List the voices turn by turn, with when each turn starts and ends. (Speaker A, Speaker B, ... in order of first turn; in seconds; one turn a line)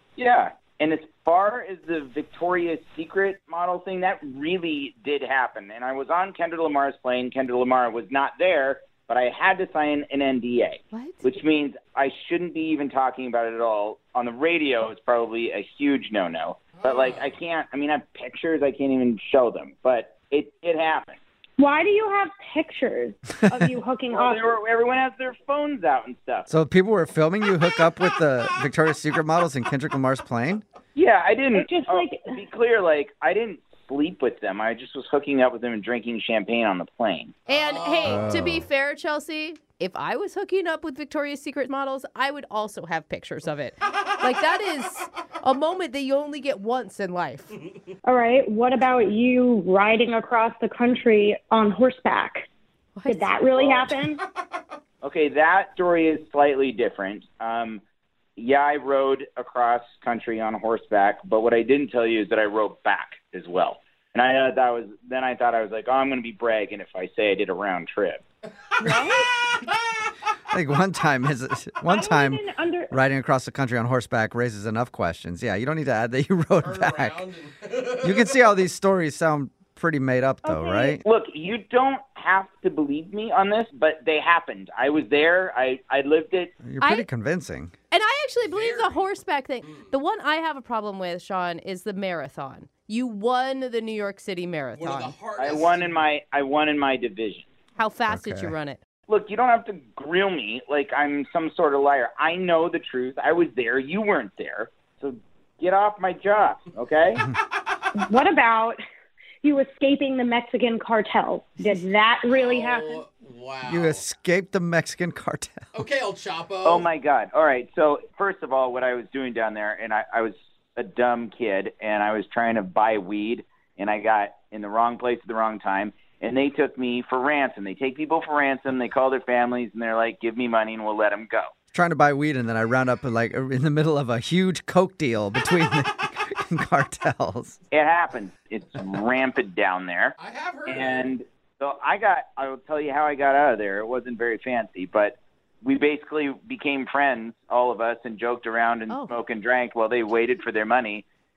Speaker A: 0.2-21.2
Speaker B: 10.9-11.2
Speaker C: 16.8-17.3
Speaker D: 21.6-24.5
Speaker A: 24.1-26.5
Speaker E: 26.5-30.6
Speaker A: 30.9-37.4
Speaker D: 31.5-32.4
Speaker C: 37.5-38.5
Speaker B: 37.5-47.6
Speaker E: 38.0-38.7
Speaker C: 44.0-44.3
Speaker D: 48.0-52.5
Speaker B: 53.0-53.4
Speaker D: 53.1-54.2
Speaker A: 53.6-53.8
Speaker C: 54.2-54.7
Speaker A: 55.0-57.8
Speaker A: 58.4-68.2
Speaker C: 68.7-69.9
Speaker D: 68.8-69.3
Speaker E: 70.5-77.3
Speaker D: 71.9-73.0
Speaker C: 76.6-78.6
Speaker E: 78.0-81.0
Speaker D: 80.5-80.7
Speaker A: 81.0-86.5
Speaker E: 86.6-87.7
Speaker B: 86.8-87.1
Speaker B: 87.9-95.2
Speaker C: 88.4-89.1
Speaker C: 89.6-89.9
Speaker C: 94.7-96.1
Speaker A: 95.4-97.5
Speaker B: 97.8-98.8
Speaker E: 98.1-98.5
Speaker A: 99.1-107.2
Speaker C: 107.2-107.8
Speaker D: 108.0-108.8
Speaker D: 109.4-113.0
Speaker C: 111.6-114.0
Speaker E: 113.7-115.7
Speaker C: 115.7-116.9
Speaker A: 116.6-131.5
Speaker E: 131.7-137.6
Speaker A: 137.7-151.1
Speaker C: 140.2-141.1
Speaker B: 148.9-149.2